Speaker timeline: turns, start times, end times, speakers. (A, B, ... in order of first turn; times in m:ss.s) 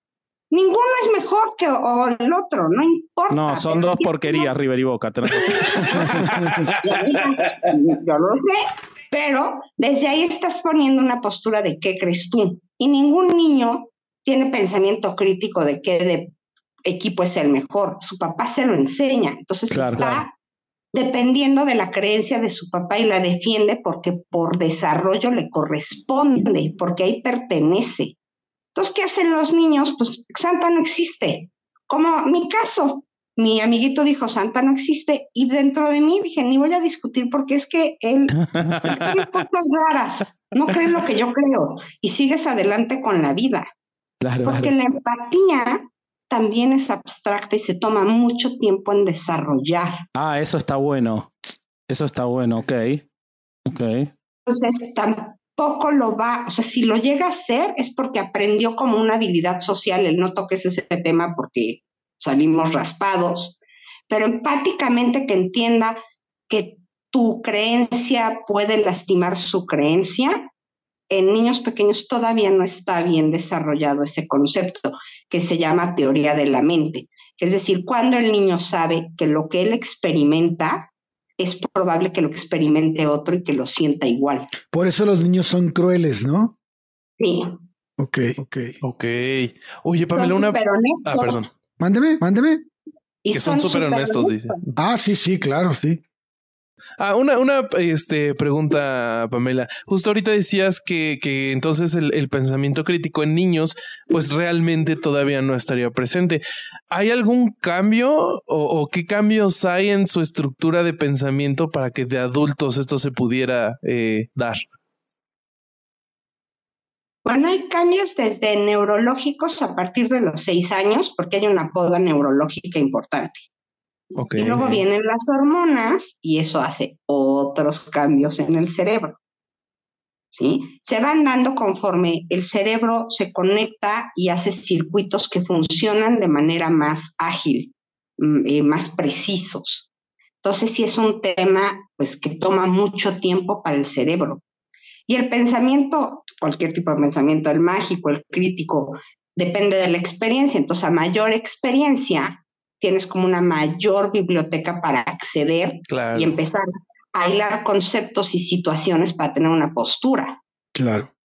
0:00.5-0:04.5 A
0:03.3-0:06.7 B
0:05.4-0:16.3 A
0:06.0-0:06.6 C
0:16.8-0:20.3 A
0:19.7-0:20.2 B
0:20.9-0:28.1 A
0:28.7-0:43.7 A
0:38.5-0:39.2 B
0:44.2-0:44.7 B
0:44.4-0:50.0 A
0:50.1-0:51.3 B
0:51.9-0:53.0 B
0:53.6-0:54.1 B
0:54.5-1:06.0 A
1:06.5-1:10.5 A
1:11.1-1:24.5 A
1:24.7-1:26.6 C
1:27.2-1:27.6 A
1:28.0-1:28.8 C
1:28.8-1:31.5 D
1:30.1-1:31.5 A
1:31.8-1:32.6 C
1:33.2-1:34.6 A
1:33.3-1:34.8 D
1:34.8-1:36.0 C
1:37.0-1:54.6 D
1:57.2-2:03.4 A
2:04.2-2:04.8 D
2:04.4-2:09.2 A
2:10.3-2:19.9 A
2:20.4-2:24.4 A
2:25.1-2:40.4 A
2:35.9-2:36.4 D
2:40.7-2:41.1 C